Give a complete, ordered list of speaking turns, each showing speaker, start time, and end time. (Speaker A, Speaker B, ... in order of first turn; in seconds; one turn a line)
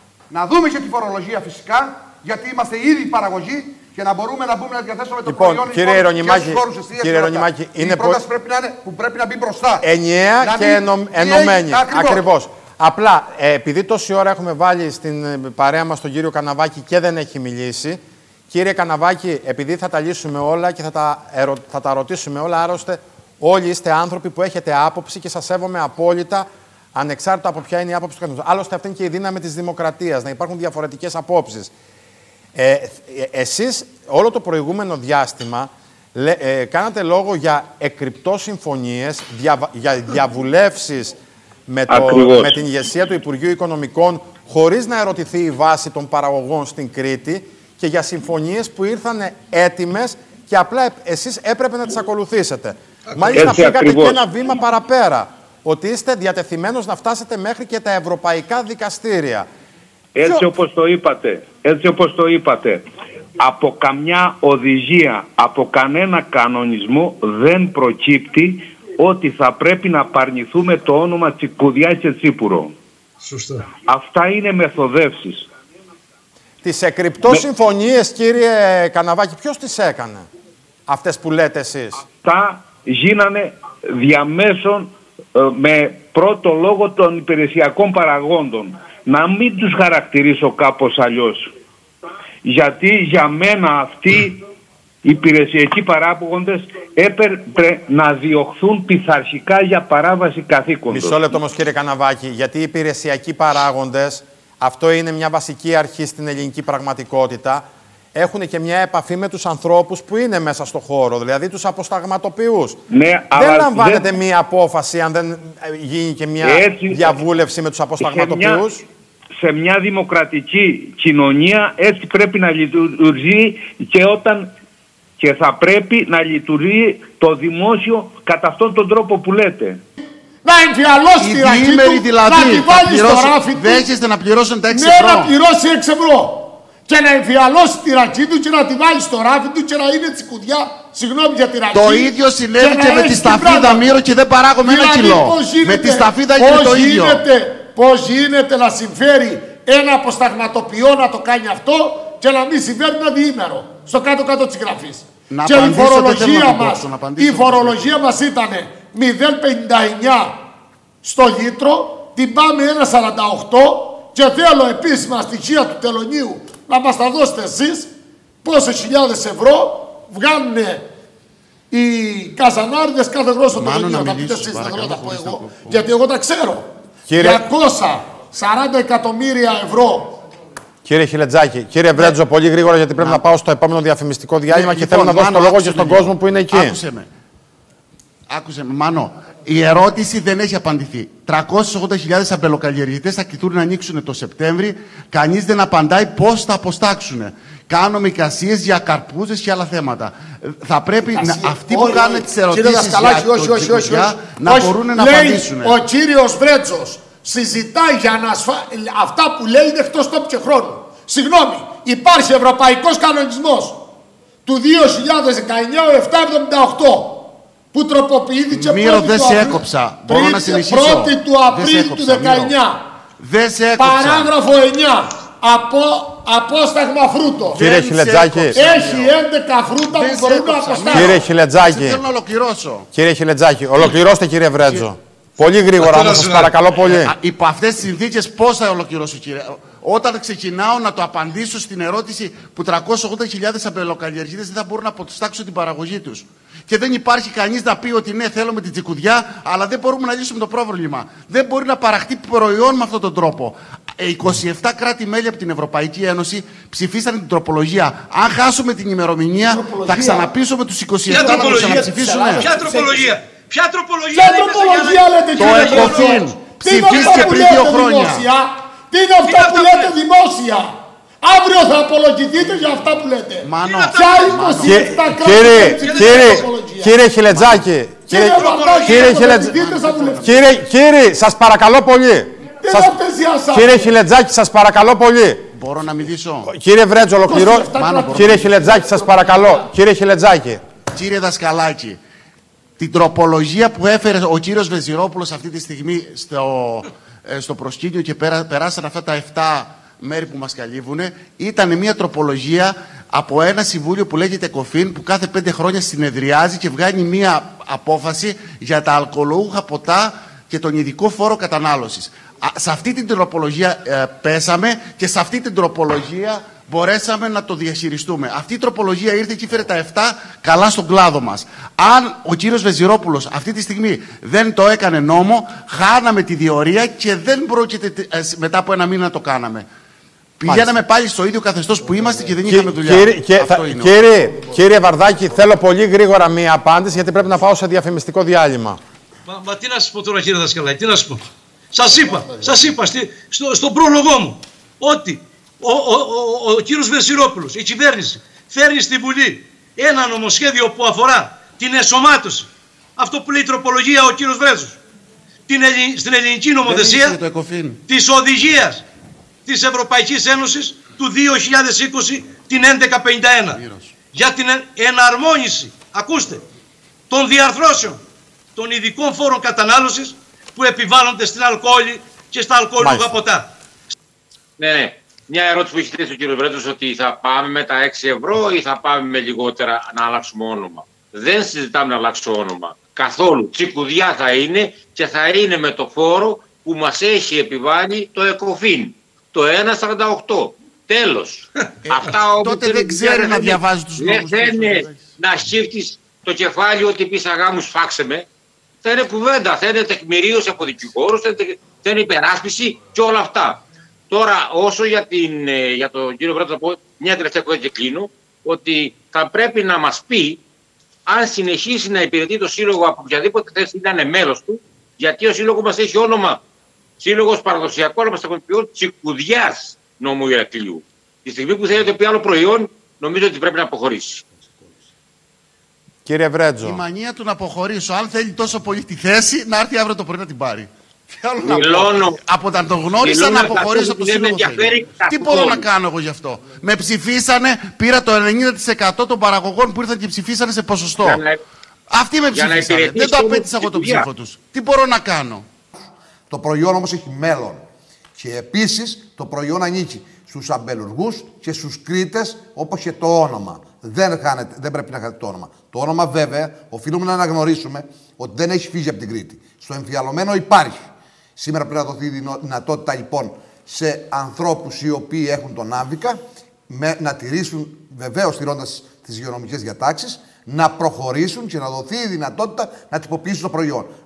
Speaker A: 0.3-9.8
Speaker B: 5.2-8.2
Speaker B: 9.8-18.0
Speaker A: 10.4-12.2
Speaker B: 18.5-31.7
Speaker B: 32.5-59.5
Speaker C: 42.0-42.3
Speaker D: 53.1-53.5
Speaker C: 53.4-54.1
Speaker C: 60.2-62.8
Speaker C: 63.4-72.7
Speaker D: 73.2-73.7
Speaker C: 73.9-75.4
Speaker B: 76.6-80.3
Speaker B: 80.9-82.0
Speaker C: 82.2-83.5
Speaker C: 84.0-84.8
Speaker C: 85.4-91.4
Speaker C: 92.5-94.3
Speaker C: 95.0-101.0
Speaker B: 100.9-112.8
Speaker C: 112.9-113.8
Speaker B: 113.3-118.8
Speaker C: 116.6-117.0
Speaker C: 118.1-118.5
Speaker C: 119.4-124.5
Speaker C: 125.2-129.7
Speaker E: 130.4-133.9
Speaker F: 131.2-135.3
Speaker E: 134.7-143.9
Speaker F: 141.7-147.2
Speaker E: 144.6-160.4
Speaker F: 155.3-157.9
Speaker E: 161.0-167.9
Speaker E: 168.4-170.8
Speaker E: 171.7-180.1
Speaker F: 173.5-175.9
Speaker B: 177.1-177.4
Speaker B: 180.8-186.8
Speaker F: 183.0-183.2
Speaker F: 184.5-187.1
Speaker F: 188.3-205.8
Speaker E: 201.1-213.8
Speaker E: 214.4-222.8
Speaker F: 218.5-222.6
Speaker F: 223.2-224.3
Speaker E: 223.8-227.7
Speaker F: 227.5-229.2
Speaker B: 227.6-228.6
Speaker E: 228.5-231.2
Speaker F: 229.8-232.9
Speaker B: 230.9-232.0
Speaker B: 232.9-237.1
Speaker F: 233.7-234.0
Speaker D: 235.8-236.5
Speaker F: 236.8-262.5
Speaker E: 259.5-260.3
Speaker D: 261.1-261.8
Speaker E: 261.1-263.2
Speaker D: 262.4-266.2
Speaker E: 264.1-270.7
Speaker F: 265.4-268.3
Speaker D: 269.2-270.0
Speaker E: 271.2-277.0
Speaker F: 273.4-274.9
Speaker D: 273.6-274.6
Speaker B: 274.6-279.6
Speaker D: 275.6-276.5
Speaker F: 277.3-277.7
Speaker E: 278.1-280.4
Speaker D: 278.3-279.1
Speaker F: 278.6-280.5
Speaker B: 280.2-283.0
Speaker E: 282.6-283.9
Speaker B: 283.5-285.4
Speaker F: 285.5-286.5
Speaker B: 286.4-290.6
Speaker E: 287.2-289.6
Speaker F: 287.6-288.8
Speaker F: 290.9-292.0
Speaker F: 292.8-329.6
Speaker F: 330.4-334.0
Speaker B: 330.4-330.8
Speaker B: 332.4-338.8
Speaker D: 339.3-354.8
Speaker D: 355.5-357.2
Speaker F: 356.6-357.8
Speaker D: 357.9-358.8
Speaker D: 359.4-363.6
Speaker F: 363.5-363.9
Speaker D: 364.1-366.4
Speaker D: 367.1-368.0
Speaker D: 368.6-373.5
Speaker B: 372.8-373.1
Speaker G: 374.6-398.3
Speaker F: 391.9-395.1
Speaker G: 398.8-410.4
Speaker G: 411.1-416.4
Speaker G: 417.0-424.2
Speaker B: 426.1-426.8
Speaker F: 426.6-441.2
Speaker G: 431.4-432.1
Speaker G: 433.0-435.6
Speaker G: 441.0-441.4
Speaker F: 441.9-445.4
Speaker G: 442.3-444.1
Speaker A: 446.3-447.6
Speaker A: 448.2-473.9